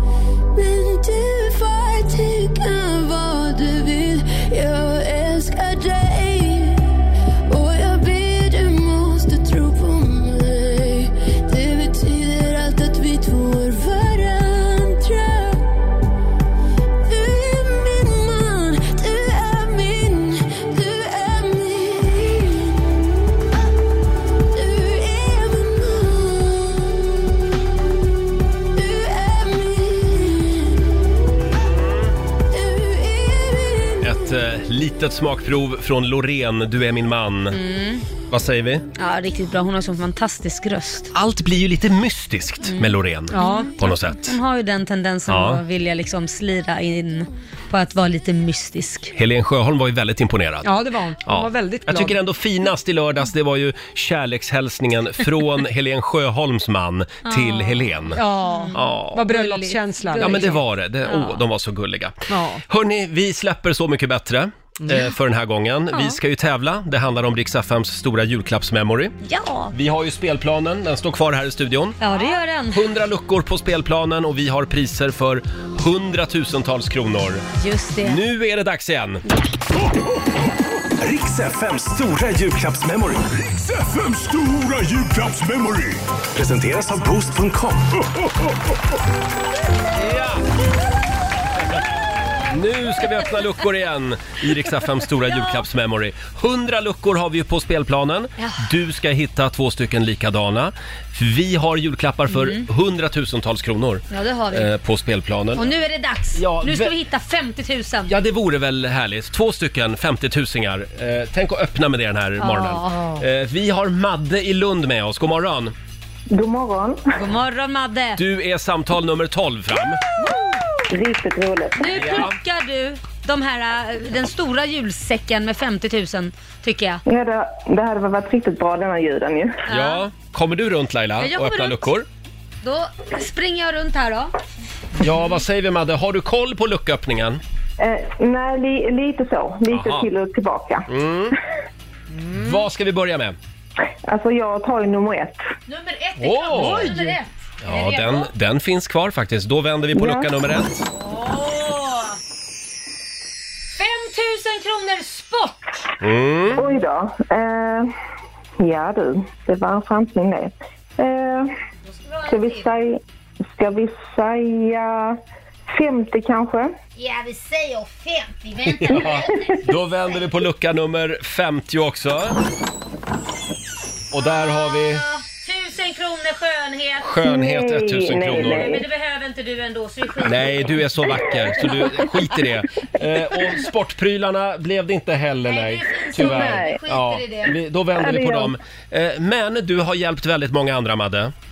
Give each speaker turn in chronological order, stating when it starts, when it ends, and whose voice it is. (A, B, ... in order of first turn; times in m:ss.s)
0:00.6-0:06.9 A
0:07.5-0:15.7 A
0:17.0-0:23.0 A
0:24.5-0:27.1 A
0:28.7-0:30.9 A
0:31.8-0:32.1 B
0:32.5-0:34.2 A
0:34.0-0:37.6 B
0:37.5-0:38.1 C
0:38.3-0:38.9 B
0:39.0-0:41.1 C
0:41.1-0:44.4 B
0:42.7-0:49.1 C
0:43.3-0:43.7 D
0:45.3-0:45.6 B
0:49.2-0:50.7 B
0:50.6-0:52.2 D
0:51.2-0:58.2 B
0:57.3-1:01.4 C
0:58.2-1:00.6 D
0:58.7-0:59.5 B
1:00.2-1:02.2 B
1:02.3-1:02.6 D
1:02.7-1:09.2 B
1:05.9-1:06.2 C
1:09.2-1:09.7 C
1:09.7-1:12.0 B
1:12.0-1:12.8 C
1:12.7-1:17.4 B
1:17.6-1:18.2 C
1:18.0-1:19.2 B
1:21.0-1:28.5 E
1:30.0-1:30.4 B
1:32.5-1:45.8 B
1:42.3-1:42.6 C
1:44.1-1:44.7 C
1:45.6-1:48.1 C
1:46.4-1:46.9 B
1:48.1-1:55.7 B
1:52.4-1:53.2 C
1:56.3-1:57.0 F
1:57.2-1:58.2 C
1:58.2-2:00.0 B
2:00.9-2:02.1 F
2:01.8-2:07.0 C
2:01.9-2:02.4 B
2:07.1-2:09.6 F
2:09.7-2:10.0 C
2:09.7-2:12.1 B
2:11.2-2:11.9 C
2:12.6-2:14.3 C
2:15.0-2:17.4 B
2:17.8-2:20.9 F
2:19.7-2:20.1 B
2:20.9-2:21.4 B
2:22.3-2:23.4 B
2:24.1-2:25.4 F
2:25.7-2:28.3 C
2:26.2-2:27.0 B
2:27.6-2:30.7 B
2:29.9-2:30.3 F
2:31.0-2:32.2 C
2:33.8-2:35.6 C
2:36.0-2:36.6 B
2:36.6-2:37.9 F
2:38.6-2:41.5 F
2:41.9-2:42.6 C
2:42.3-2:43.0 F
2:43.5-2:45.2 F
2:45.7-2:46.8 F
2:47.0-2:49.2 C
2:48.6-2:52.4 B
2:54.1-2:55.0 B
2:54.7-2:57.1 C
2:57.0-2:58.7 B
2:57.2-2:58.8 F
2:58.4-3:00.8 C
3:00.2-3:11.3 B
3:05.5-3:07.5 C
3:06.2-3:06.8 F
3:08.0-3:08.5 F